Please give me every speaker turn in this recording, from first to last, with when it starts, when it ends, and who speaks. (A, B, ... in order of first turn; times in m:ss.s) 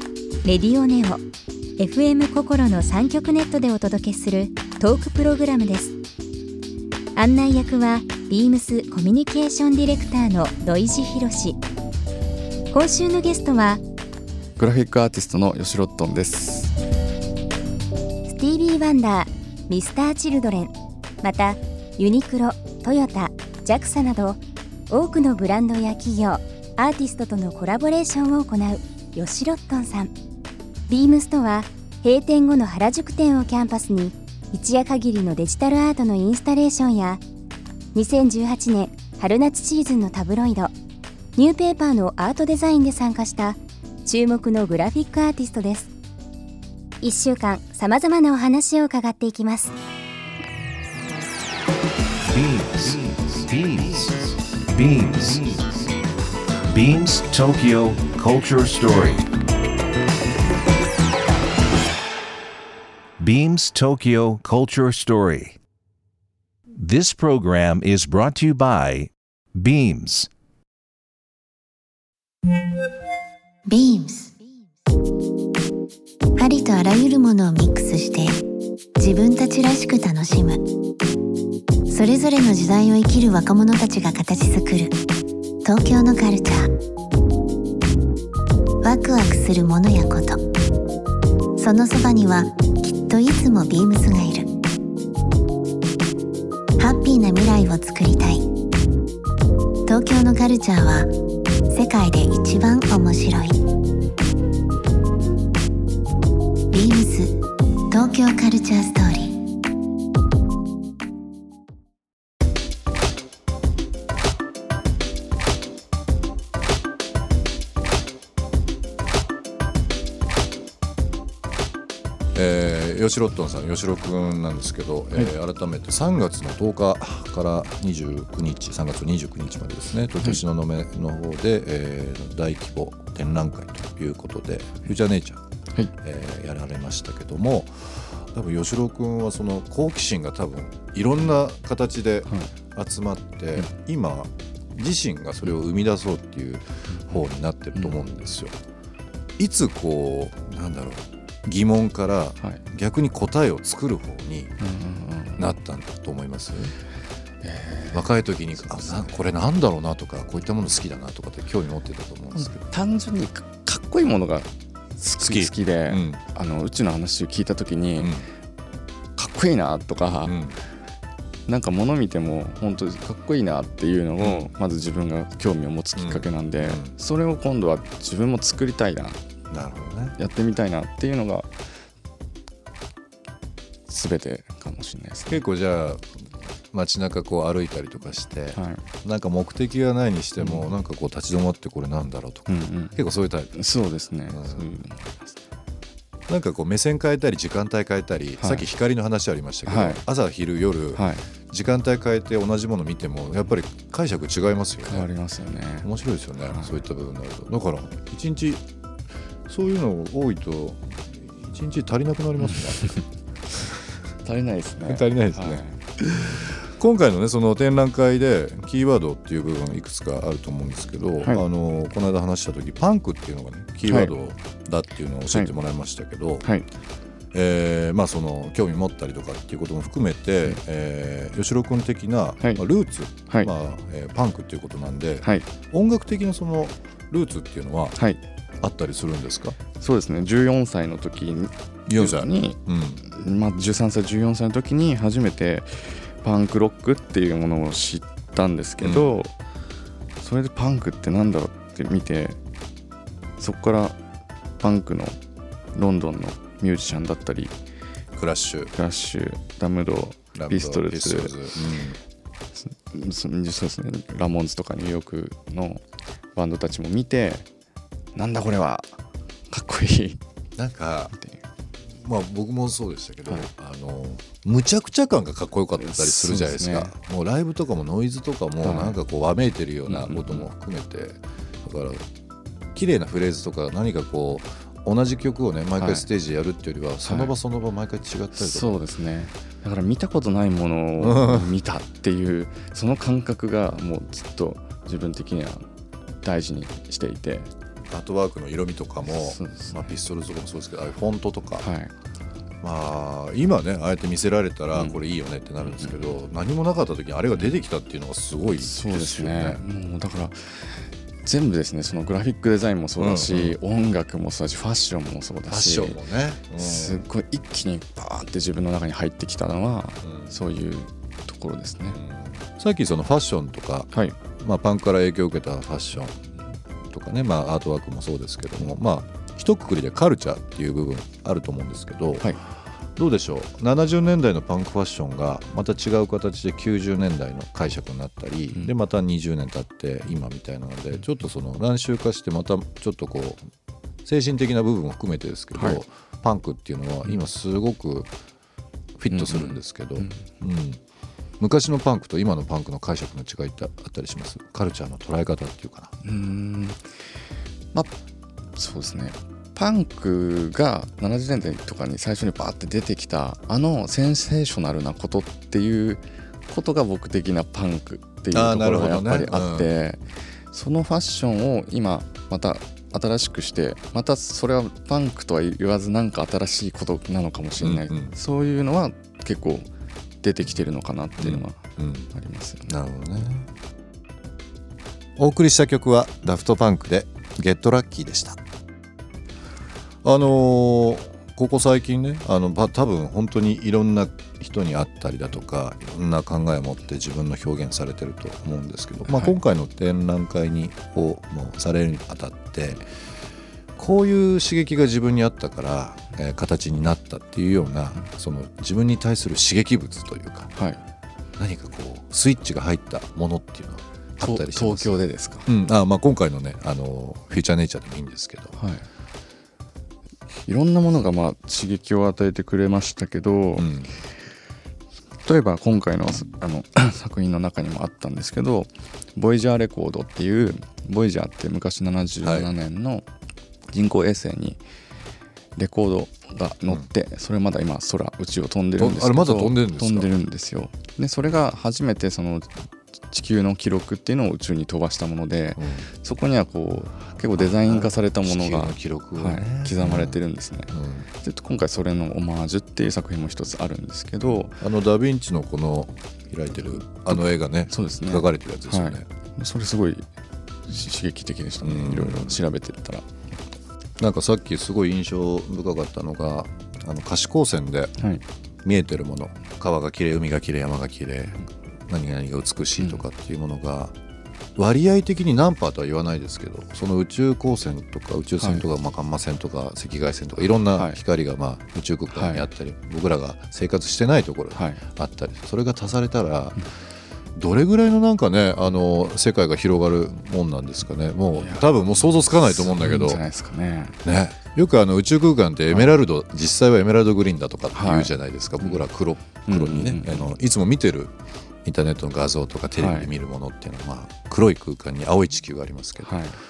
0:00.4-0:01.2 A
0:01.8-0:06.0 A
0:07.2-0:11.6 A
0:12.7-0:13.8 A
0:14.6-0:16.7 B
0:18.3-0:30.1 A
0:30.9-0:37.2 A
0:38.0-0:40.7 A
0:41.4-0:45.9 A
0:47.0-0:49.8 A
0:52.3-0:55.8 C
0:56.7-0:59.3 C
1:03.2-1:05.6 C
1:06.8-1:10.3 C
1:13.7-1:14.3 D
1:16.4-1:18.4 D
1:19.0-1:20.6 D
1:21.9-1:25.0 D
1:25.6-1:26.7 D
1:28.8-1:30.4 D
1:31.6-1:34.5 D
1:36.8-1:38.5 D
1:39.9-1:41.1 D
1:41.7-1:43.6 D
1:46.7-1:47.4 D
1:47.9-1:49.4 D
2:02.4-2:15.4 E
2:16.0-2:28.6 E
2:22.3-2:22.5 B
2:26.9-2:27.2 B
2:29.4-2:34.6 E
2:34.6-2:35.5 B
2:35.4-2:36.7 E
2:37.4-2:39.1 B
2:37.9-2:42.6 E
2:42.4-2:48.1 B
2:45.2-2:46.2 E
2:48.0-2:48.3 E
2:49.2-2:50.4 B
2:50.2-2:50.6 E
2:51.5-2:59.2 B
2:54.2-2:54.5 E
2:56.0-2:56.9 E
2:59.5-3:00.2 E
3:00.2-3:01.5 B
3:03.9-3:05.4 B
3:05.3-3:06.2 E
3:06.7-3:13.6 E
3:08.5-3:08.8 B
3:10.4-3:10.7 B
3:12.5-3:13.0 B
3:13.5-3:15.4 B
3:14.3-3:14.7 E
3:16.3-3:25.1 E
3:18.4-3:18.7 B
3:19.7-3:20.0 B
3:20.9-3:21.2 B
3:24.8-3:25.9 B
3:25.8-3:28.6 E
3:26.4-3:26.8 B
3:29.5-3:32.9 E
3:34.2-3:35.8 B
3:34.9-3:46.5 E
3:43.9-3:44.1 B
3:46.4-3:46.7 B
3:47.3-3:58.0 E
3:52.4-3:52.6 B
3:55.2-3:55.5 B
3:58.0-3:58.2 B
3:58.6-3:59.6 E
3:59.8-4:09.4 B
4:01.9-4:03.0 E
4:08.8-4:09.2 E
4:10.2-4:12.4 B
4:13.4-4:14.0 B
4:14.6-4:15.2 B
4:15.7-4:17.6 B
4:18.1-4:18.7 E
4:18.7-4:21.4 B
4:20.4-4:22.0 E
4:22.6-4:25.8 B
4:26.4-4:27.5 B
4:28.1-4:29.0 B
4:29.5-4:30.2 B
4:30.6-4:31.2 E
4:31.1-4:31.4 B
4:31.9-4:42.0 E
4:35.8-4:37.0 B
4:38.6-4:39.0 B
4:39.9-4:40.5 B
4:42.8-4:48.8 E
4:45.8-4:46.1 B
4:47.0-4:47.3 B
4:48.4-4:55.6 B
4:51.0-4:51.5 E
4:56.2-4:57.5 B
4:57.9-5:01.7 E
4:59.0-4:59.9 B
5:01.6-5:01.9 B
5:02.6-5:09.6 E
5:04.7-5:05.0 B
5:05.6-5:06.2 B
5:08.6-5:16.0 B
5:13.0-5:13.6 E
5:15.5-5:17.0 E
5:16.6-5:22.0 B
5:20.0-5:20.4 E
5:21.9-5:26.2 E
5:23.9-5:24.2 B
5:26.9-5:32.4 E
5:33.0-5:43.5 E
5:44.0-5:48.1 E
5:45.6-5:45.8 B
5:49.0-5:50.8 E
5:49.1-5:50.2 B
5:51.4-5:55.9 E
5:56.0-5:56.8 B
5:58.6-6:19.7 B
6:08.3-6:09.7 E
6:17.6-6:18.2 E
6:20.2-6:22.7 B
6:21.2-6:22.1 E
6:22.7-6:23.5 E
6:25.2-6:28.4 E
6:30.0-6:42.9 E
6:39.1-6:39.4 B
6:43.8-6:50.5 E
6:50.5-6:50.8 B
6:51.4-6:58.6 E
6:54.2-6:55.5 B
6:58.6-6:58.9 B
7:00.5-7:03.7 B
7:03.6-7:04.0 E
7:05.2-7:13.1 B
7:12.2-7:12.5 E
7:13.7-7:14.6 B
7:15.6-7:22.5 B
7:18.8-7:20.1 E
7:23.1-7:34.6 B
7:25.6-7:25.9 E
7:27.4-7:31.1 E
7:34.6-7:39.1 E
7:37.1-7:40.1 B
7:40.7-7:43.1 B
7:41.6-7:42.4 E
7:44.0-7:48.0 E
7:48.0-7:48.2 B
7:48.6-7:53.9 E
7:52.8-7:53.0 B
7:54.6-8:06.6 E
7:58.4-7:58.7 B
8:00.7-8:01.0 B
8:02.1-8:02.5 B
8:04.5-8:04.8 B
8:07.4-8:13.2 E
8:11.3-8:14.0 B
8:14.0-8:21.1 E
8:17.7-8:20.4 B
8:21.6-8:26.2 E
8:22.7-8:23.1 B
8:26.0-8:26.4 B